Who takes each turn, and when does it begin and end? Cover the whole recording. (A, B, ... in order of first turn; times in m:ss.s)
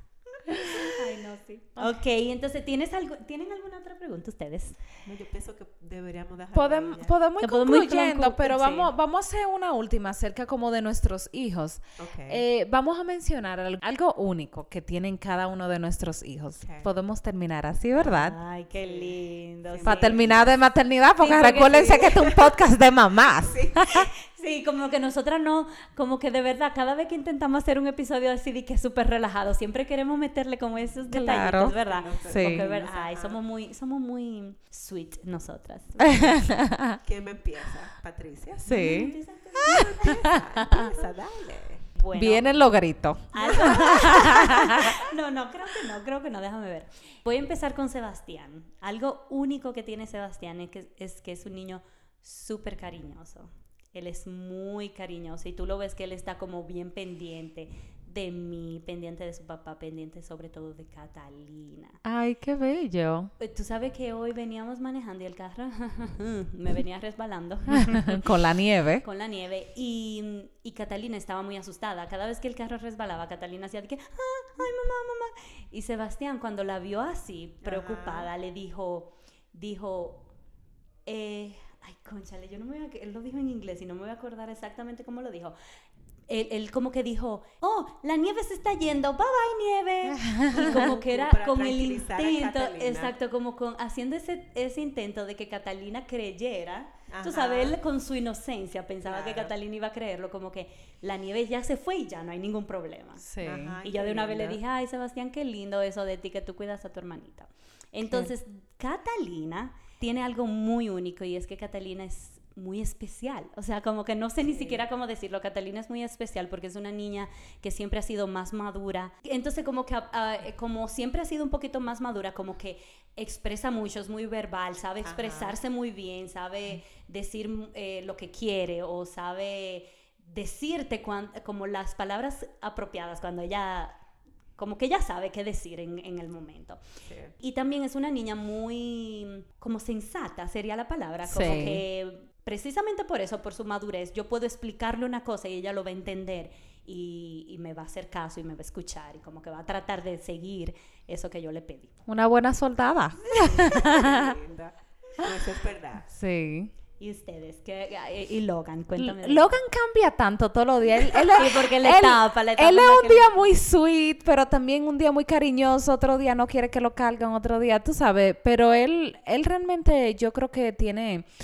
0:00.5-0:00.9 A
0:00.5-0:04.8 B
0:05.0-0:07.2 C
0:06.5-0:18.4 A
0:07.4-0:08.9 B
0:12.0-0:12.4 C
0:16.6-0:16.9 C
0:18.0-0:20.4 B
0:18.8-0:19.2 C
0:19.7-0:20.6 C
0:19.8-0:24.1 A
0:21.2-0:22.2 B
0:21.3-0:22.6 C
0:23.4-0:24.0 C
0:23.9-0:36.4 B
0:31.1-0:31.8 A
0:31.5-0:33.4 C
0:32.3-0:32.7 A
0:36.1-0:37.0 A
0:37.0-0:41.9 C
0:38.6-0:39.1 A
0:38.6-0:40.2 B
0:39.6-0:40.9 A
0:42.0-0:42.6 B
0:42.1-0:45.0 A
0:43.3-1:02.0 B
0:43.5-0:44.1 C
1:02.0-1:03.3 A
1:03.4-1:08.2 B
1:07.8-1:09.0 A
1:09.0-1:20.2 B
1:17.6-1:18.3 C
1:21.1-1:25.5 B
1:26.3-1:43.3 B
1:30.1-1:30.8 A
1:30.5-1:33.1 C
1:37.1-1:37.8 C
1:39.1-1:39.5 C
1:43.2-1:43.8 A
1:43.4-1:44.6 C
1:43.8-2:14.0 B
1:54.5-1:54.8 C
2:05.0-2:05.6 C
2:14.6-2:16.8 B
2:17.0-2:17.3 C
2:17.4-2:31.9 B
2:21.3-2:21.8 A
2:32.1-2:34.4 A
2:33.2-2:36.1 C
2:36.1-2:36.7 A
2:37.0-2:39.6 B
2:39.0-2:51.3 A
2:41.2-2:43.5 B